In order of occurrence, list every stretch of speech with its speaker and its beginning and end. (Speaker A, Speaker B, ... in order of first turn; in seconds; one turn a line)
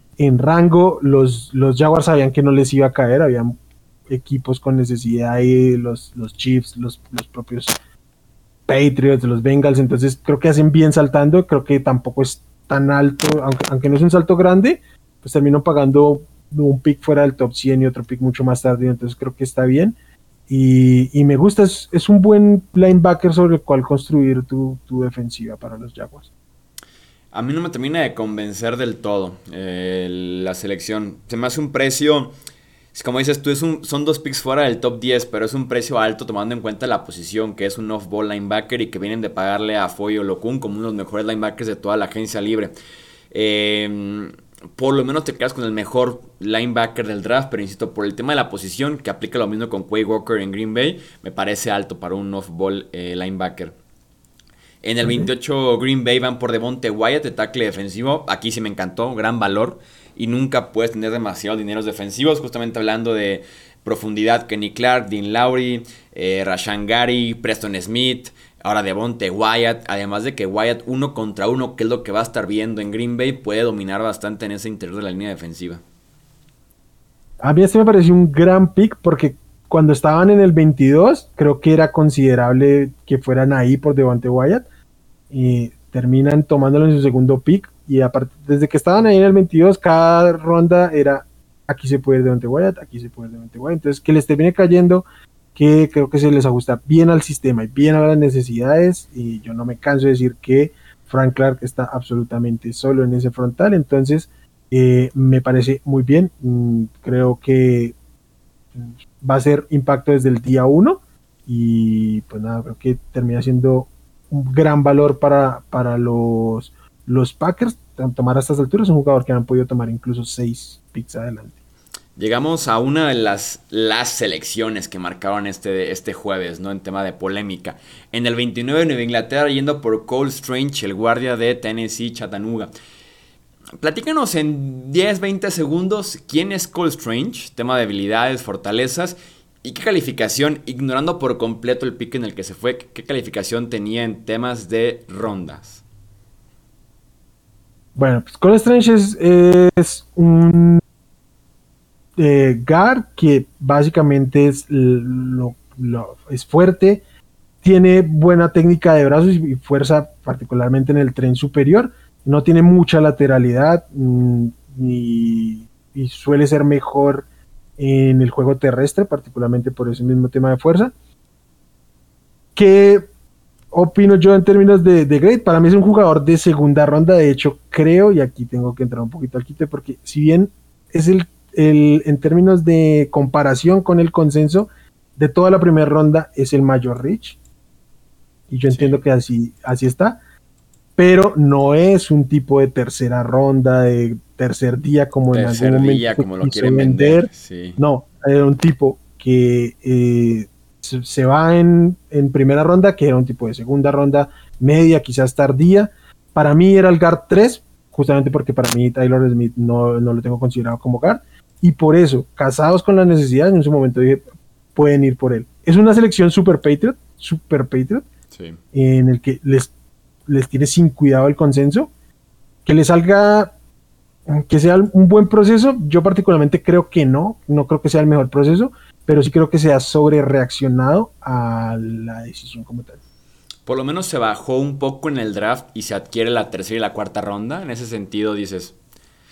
Speaker A: 0.2-3.6
Speaker A: 4.1-7.8
Speaker A: 8.7-20.0
Speaker A: 20.5-26.3
Speaker B: 27.3-32.3
Speaker B: 32.9-42.7
Speaker B: 43.3-53.8
Speaker B: 54.8-75.8
Speaker A: 55.0-55.3
Speaker A: 77.4-84.7
Speaker A: 85.3-108.0
Speaker A: 108.8-121.5
Speaker B: 122.2-132.7
Speaker B: 133.8-145.8
Speaker A: 147.9-150.8
Speaker A: 152.2-157.0
Speaker A: 157.6-167.3
Speaker A: 167.8-170.9
Speaker A: 172.6-173.1
Speaker A: 173.7-187.4
Speaker A: 188.5-190.2
Speaker B: 188.7-189.0
Speaker A: 191.0-218.1
Speaker B: 195.3-197.8
Speaker B: 218.3-218.6
Speaker A: 218.7-219.7
Speaker A: 220.3-221.9
Speaker A: 222.7-223.5
Speaker A: 224.3-233.0
Speaker B: 233.7-238.8